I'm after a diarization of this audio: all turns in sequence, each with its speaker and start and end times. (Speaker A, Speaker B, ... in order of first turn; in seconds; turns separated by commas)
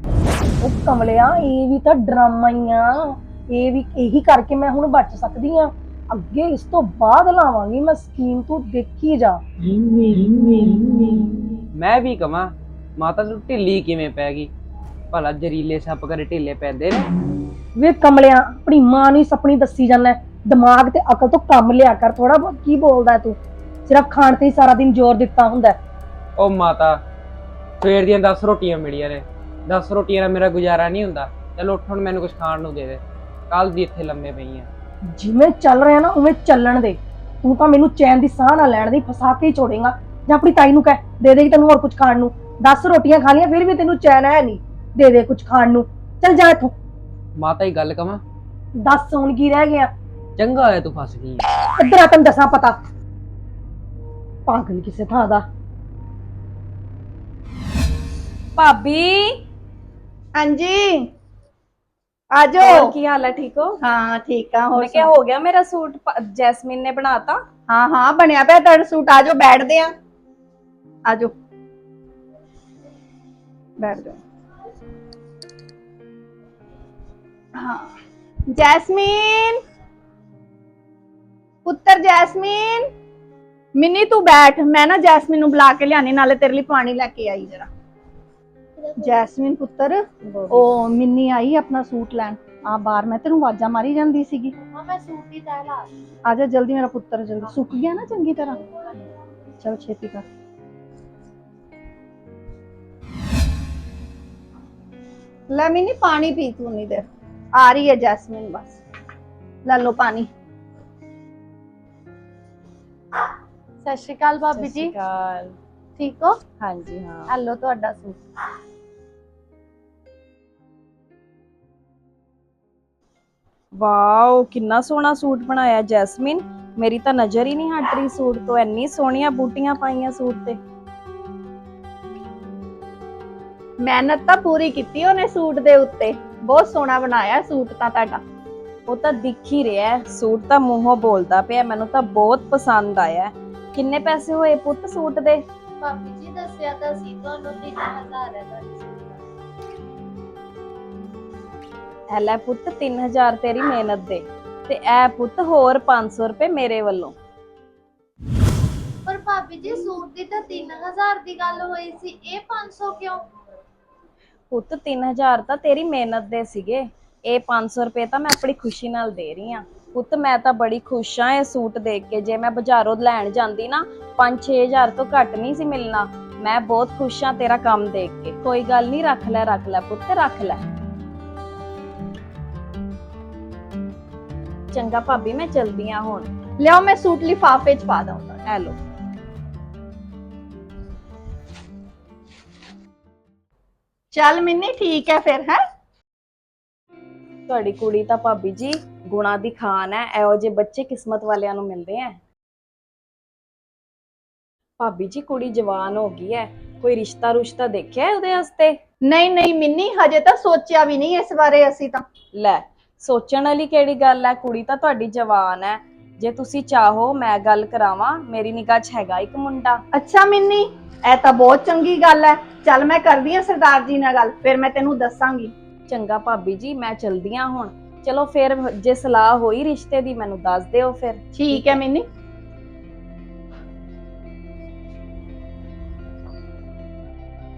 Speaker A: 0.6-9.4, Speaker B: 11.8-14.5, Speaker B: 15.1-17.1, Speaker A: 17.8-25.8, Speaker B: 26.4-27.0, Speaker B: 27.8-34.7, Speaker A: 35.1-46.7, Speaker B: 47.4-48.2, Speaker A: 48.8-49.9, Speaker B: 50.4-51.4, Speaker A: 51.8-52.8, Speaker A: 54.5-55.5, Speaker C: 58.6-59.4, Speaker D: 60.4-61.1, Speaker D: 62.3-62.9, Speaker C: 62.6-63.8, Speaker D: 63.8-65.1, Speaker C: 64.8-67.4, Speaker D: 67.7-69.9, Speaker D: 71.1-71.3, Speaker D: 73.8-74.2, Speaker D: 77.6-77.9, Speaker D: 78.5-79.6, Speaker D: 81.7-82.9, Speaker D: 83.8-87.7, Speaker D: 89.0-94.5, Speaker C: 90.3-90.8, Speaker E: 94.6-95.9, Speaker D: 96.3-98.6, Speaker D: 99.6-100.2, Speaker D: 105.5-107.0, Speaker D: 107.6-108.8, Speaker D: 109.7-110.3, Speaker E: 113.8-114.9, Speaker C: 114.5-115.6, Speaker E: 116.0-116.4, Speaker C: 116.6-117.3, Speaker E: 117.3-118.2, Speaker C: 123.8-130.6, Speaker D: 133.8-138.2, Speaker C: 138.9-145.4, Speaker E: 145.8-149.2, Speaker C: 152.1-157.2, Speaker E: 159.1-163.2, Speaker C: 164.5-180.6, Speaker C: 184.7-186.3, Speaker D: 186.6-188.5, Speaker D: 194.1-195.6, Speaker C: 197.5-202.2, Speaker C: 204.8-208.8, Speaker D: 209.1-212.0, Speaker C: 212.4-219.8, Speaker D: 219.9-225.5, Speaker C: 225.9-231.8, Speaker D: 231.3-232.1